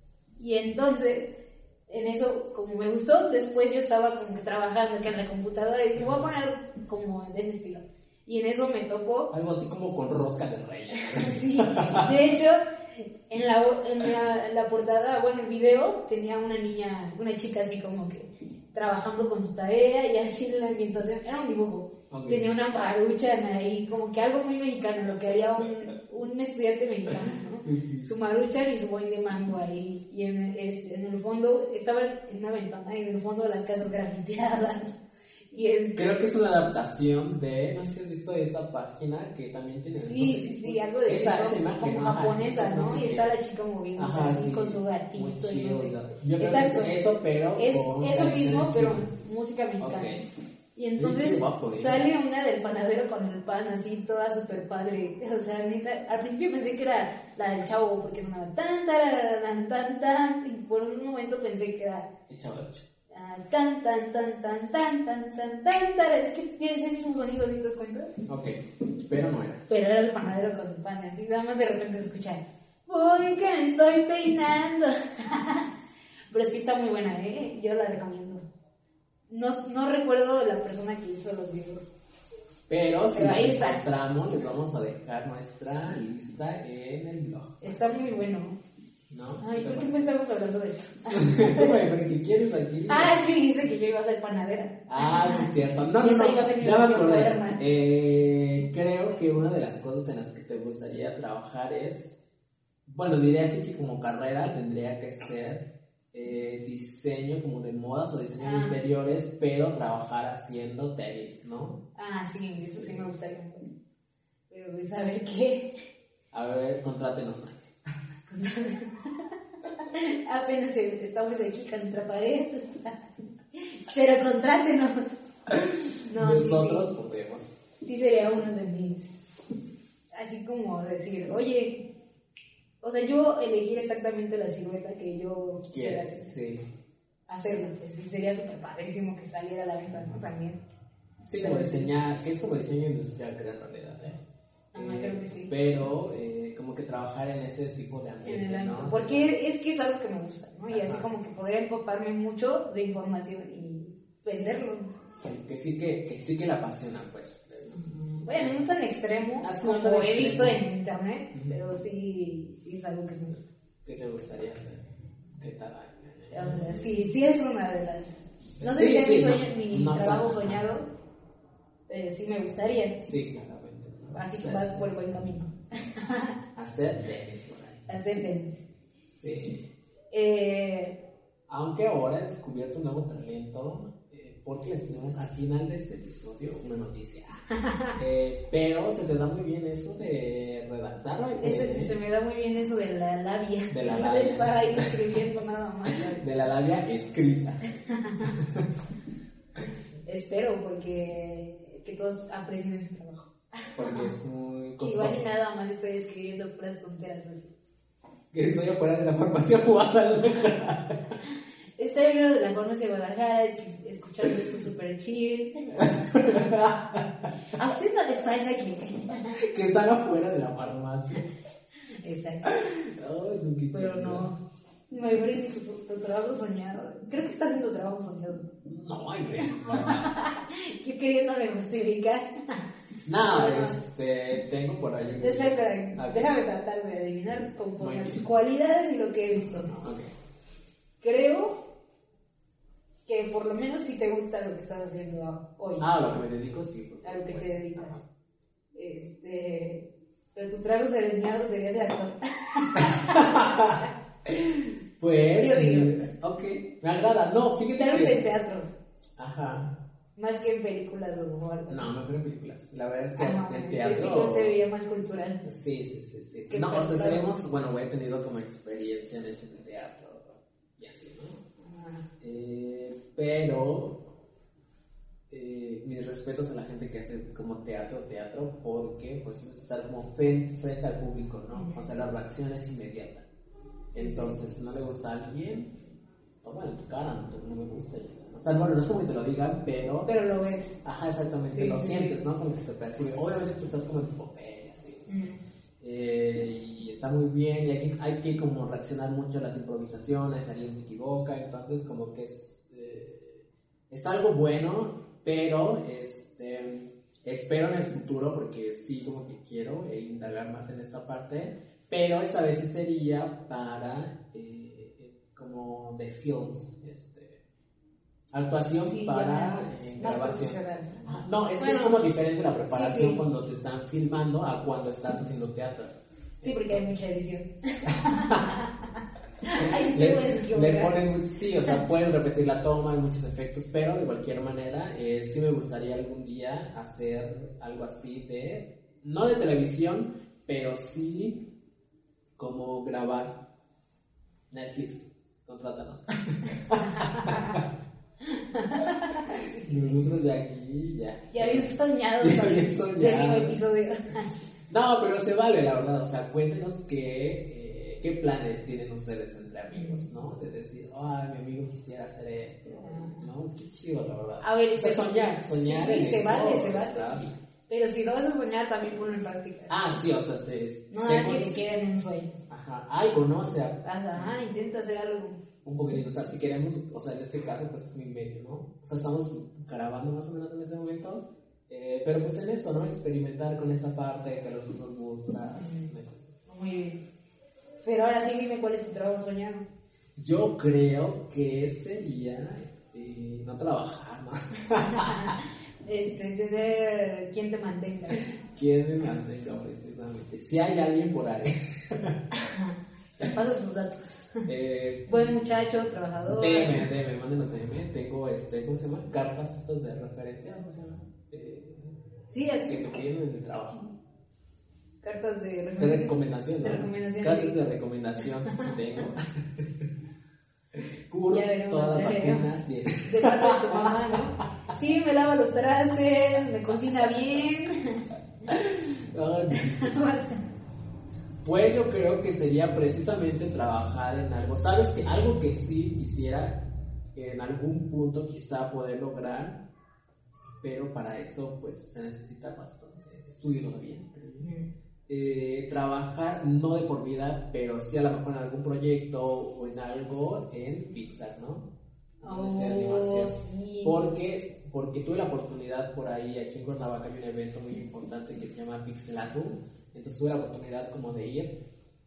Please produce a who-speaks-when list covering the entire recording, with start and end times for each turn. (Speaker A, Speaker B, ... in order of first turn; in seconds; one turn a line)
Speaker A: 0.4-1.3
Speaker A: 1.9-9.3
Speaker B: 6.0-6.3
Speaker B: 9.3-12.1
Speaker A: 11.0-35.0
Speaker B: 22.1-22.5
Speaker B: 27.6-28.1
Speaker A: 35.5-36.0
Speaker B: 36.0-43.3
Speaker A: 40.0-47.0
Speaker B: 44.0-49.1
Speaker A: 47.5-50.1
Speaker B: 49.8-50.2
Speaker A: 50.7-62.1
Speaker B: 51.0-52.0
Speaker B: 62.3-62.8
Speaker A: 63.1-68.1
Speaker B: 68.2-69.6
Speaker A: 69.7-75.7
Speaker A: 76.3-78.4
Speaker A: 79.3-81.9
Speaker B: 82.7-87.8
Speaker A: 83.1-83.8
Speaker A: 87.6-88.6
Speaker B: 89.1-90.0
Speaker A: 89.4-91.8
Speaker B: 91.1-93.2
Speaker A: 92.9-97.6
Speaker B: 94.9-102.2
Speaker B: 102.8-111.8
Speaker A: 108.4-108.8
Speaker A: 112.0-113.7
Speaker B: 112.6-113.0
Speaker A: 114.5-115.7
Speaker B: 116.3-117.7
Speaker A: 118.3-119.2
Speaker A: 119.8-123.0
Speaker A: 123.5-125.2
Speaker B: 125.5-127.6
Speaker A: 126.0-126.9
Speaker A: 127.8-131.8
Speaker A: 132.8-136.3
Speaker B: 135.7-136.6
Speaker A: 137.3-140.6
Speaker B: 141.2-144.2
Speaker A: 141.4-141.9
Speaker A: 144.7-145.5
Speaker B: 144.7-149.3
Speaker A: 148.2-155.1
Speaker B: 150.7-151.1
Speaker B: 155.1-158.6
Speaker A: 158.1-163.5
Speaker B: 159.4-160.6
Speaker B: 163.8-164.8
Speaker B: 165.3-166.9
Speaker A: 166.3-170.8
Speaker B: 168.6-170.6
Speaker A: 171.9-173.0
Speaker B: 173.0-174.9
Speaker A: 174.1-176.3
Speaker B: 176.6-177.8
Speaker A: 177.9-178.6
Speaker B: 179.1-179.6
Speaker A: 180.1-181.0
Speaker B: 181.5-187.4
Speaker A: 187.6-187.9
Speaker B: 187.9-191.9
Speaker A: 191.4-196.2
Speaker B: 193.7-195.0
Speaker B: 195.9-197.6
Speaker A: 197.9-198.3
Speaker B: 198.2-198.7
Speaker A: 200.1-204.1
Speaker B: 203.7-205.3
Speaker A: 204.8-207.5
Speaker B: 208.3-211.2
Speaker A: 211.8-215.7
Speaker B: 215.7-217.3
Speaker A: 217.5-219.4
Speaker B: 219.4-221.2
Speaker A: 222.0-222.5
Speaker B: 222.4-224.3
Speaker A: 223.7-224.4
Speaker A: 224.9-228.5
Speaker B: 228.7-230.1
Speaker A: 229.6-232.6
Speaker B: 233.0-236.3
Speaker A: 233.2-233.8
Speaker A: 235.2-239.7
Speaker B: 237.8-238.2
Speaker B: 239.4-240.1
Speaker A: 241.0-241.6
Speaker A: 243.1-245.9
Speaker B: 245.8-248.0
Speaker A: 247.0-248.0
Speaker A: 248.7-253.7
Speaker B: 252.8-258.2
Speaker A: 255.4-256.1
Speaker A: 257.7-258.7
Speaker B: 259.2-259.8
Speaker A: 260.1-261.9
Speaker B: 261.7-264.6
Speaker A: 263.2-265.4
Speaker B: 265.4-271.4
Speaker A: 266.5-267.2
Speaker A: 271.6-272.1
Speaker B: 272.2-274.1
Speaker B: 275.3-283.2
Speaker A: 281.5-281.8
Speaker A: 283.9-284.4
Speaker B: 283.9-285.7
Speaker B: 286.4-295.2
Speaker A: 290.1-290.8
Speaker A: 291.5-292.2
Speaker A: 295.1-295.4
Speaker B: 295.8-317.4
Speaker B: 318.3-326.8
Speaker A: 318.8-322.1
Speaker A: 322.6-323.2
Speaker A: 326.4-328.7
Speaker B: 327.9-328.6
Speaker A: 329.4-330.9
Speaker B: 329.6-341.4
Speaker B: 342.4-343.4
Speaker B: 344.5-347.6
Speaker A: 346.7-347.6
Speaker A: 348.2-349.9
Speaker B: 349.3-353.6
Speaker A: 351.3-354.3
Speaker B: 354.7-367.4
Speaker A: 359.7-360.0
Speaker A: 362.8-363.2
Speaker A: 364.4-370.0
Speaker B: 369.7-371.6
Speaker A: 370.9-372.4
Speaker B: 372.5-374.3
Speaker A: 373.8-375.4
Speaker B: 375.6-386.4
Speaker A: 385.6-385.9
Speaker A: 386.5-387.0
Speaker A: 387.8-389.7
Speaker B: 390.1-395.4
Speaker A: 394.8-398.3
Speaker B: 398.1-402.2
Speaker A: 402.3-404.5
Speaker B: 404.4-405.4
Speaker A: 405.1-406.9
Speaker B: 406.3-412.0
Speaker A: 412.3-413.0
Speaker B: 412.7-413.9
Speaker A: 415.0-417.6
Speaker B: 415.8-419.9
Speaker B: 420.7-424.4
Speaker A: 421.3-428.0
Speaker B: 428.5-430.2
Speaker A: 429.5-430.4
Speaker B: 431.4-436.6
Speaker B: 437.1-439.6
Speaker B: 440.6-444.5
Speaker A: 444.4-444.7
Speaker B: 445.1-451.7
Speaker B: 452.2-461.6
Speaker A: 452.2-454.1